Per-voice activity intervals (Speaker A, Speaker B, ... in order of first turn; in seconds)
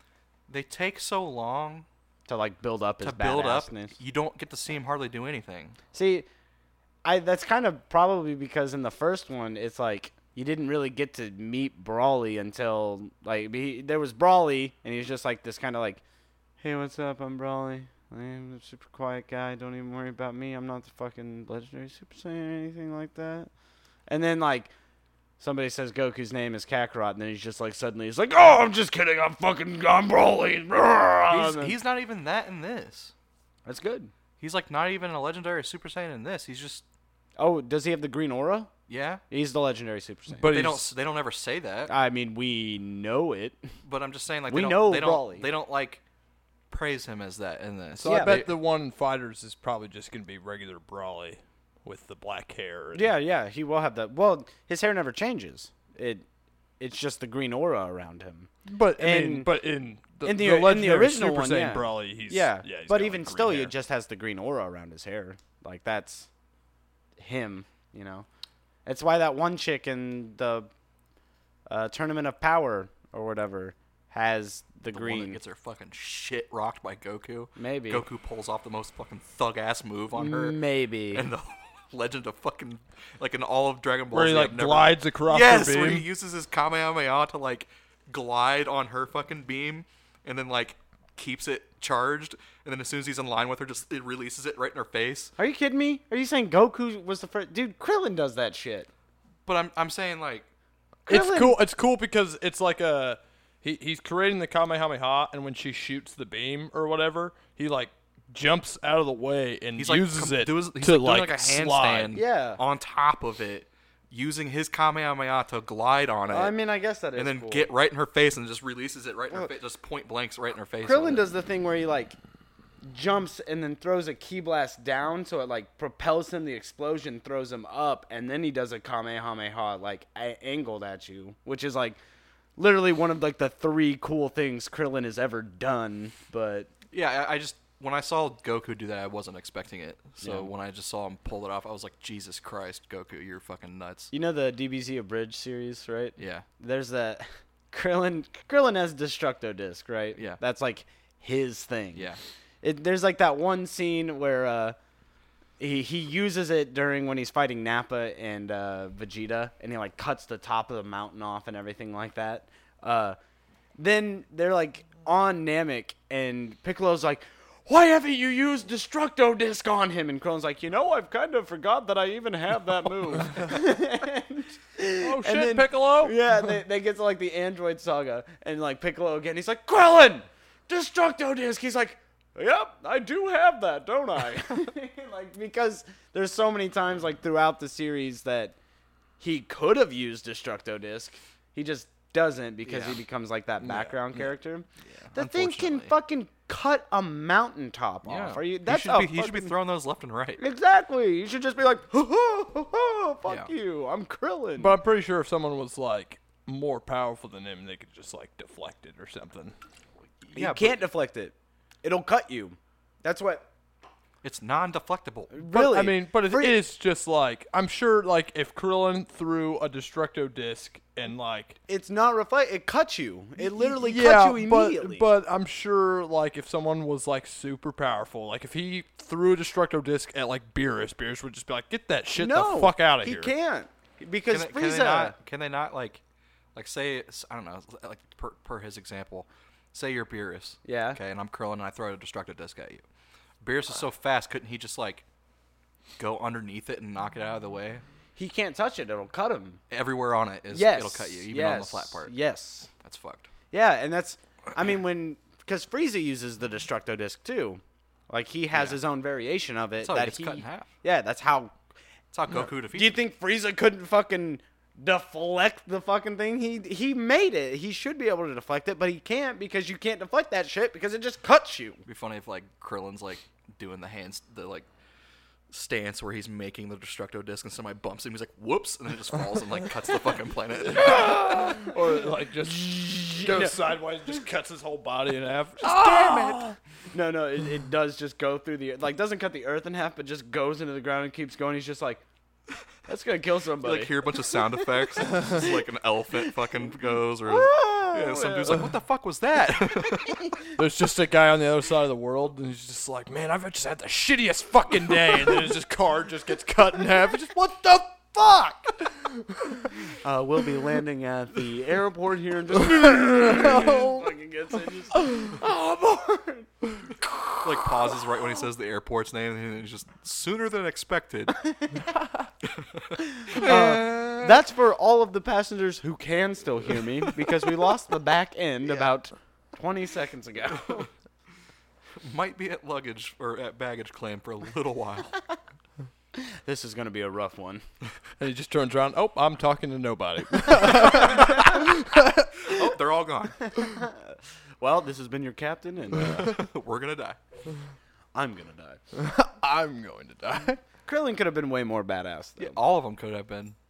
Speaker A: 0.5-1.9, 3.0-5.8, 31.3-33.1, 34.4-36.8, 38.9-39.2, 40.5-41.9, 43.8-46.0, 46.7-48.6, 74.9-80.6, 81.1-95.3, 99.4-100.5, 109.8-116.5, 117.2-121.3, 136.9-144.1, 146.2-146.4, 151.9-152.2, 192.7-193.0, 194.8-195.9, 198.1-200.4, 203.3-203.5, 210.2-210.8, 214.2-215.3, 234.3-236.0, 236.6-242.8, 243.4-245.1, 246.0-247.8, 249.7-252.1, 252.8-253.3, 258.5-258.8, 259.8-260.7, 262.1-263.0, 271.9-274.7, 275.5-281.7, 285.9-286.2, 293.6-300.2, 317.4-321.4, 322.4-324.4, 330.6-330.9, 332.0-335.2, 340.7-341.7, 342.4-343.5, 346.0-347.2, 352.4-353.6
Speaker B: 2.3-3.9, 5.9-6.3, 7.0-16.0, 16.6-23.5, 24.1-24.7, 25.4-31.8, 33.6-34.1, 37.4-38.7, 39.3-40.6, 41.9-43.7, 44.5-45.5, 48.0-48.4, 52.9-56.2, 56.8-59.5, 60.2-66.3, 67.2-68.3, 68.8-70.7, 71.7-75.4, 77.6-78.0, 80.1-81.3, 95.4-98.9, 101.1-101.6, 112.1-112.6, 116.3-117.7, 120.8-122.2, 122.8-132.0, 132.6-136.7, 140.2-140.5, 144.1-152.1, 152.6-154.8, 155.6-163.2, 163.8-188.6, 189.2-199.5, 200.4-204.8, 210.3-213.4, 215.3-216.6, 221.7-225.1, 232.2-235.2, 240.6-241.0, 248.2-249.6, 250.5-252.7, 253.5-261.5, 262.7-271.8, 283.2-283.6, 285.6-292.0, 292.9-294.3, 297.2-298.6, 309.9-316.6, 323.1-330.9, 336.4-337.6, 341.0-341.6, 343.6-346.3, 348.1-348.8, 350.9-352.6
Speaker C: 40.4-40.9, 48.0-53.1, 58.7-63.7, 84.1-86.0, 101.1-112.1, 175.0-176.2, 193.6-193.9, 204.6-209.5, 215.5-221.6, 223.4-233.3, 280.6-286.6, 295.1-295.4, 300.6-309.7, 312.7-314.1, 315.0-315.3, 338.2-342.3, 348.9-350.6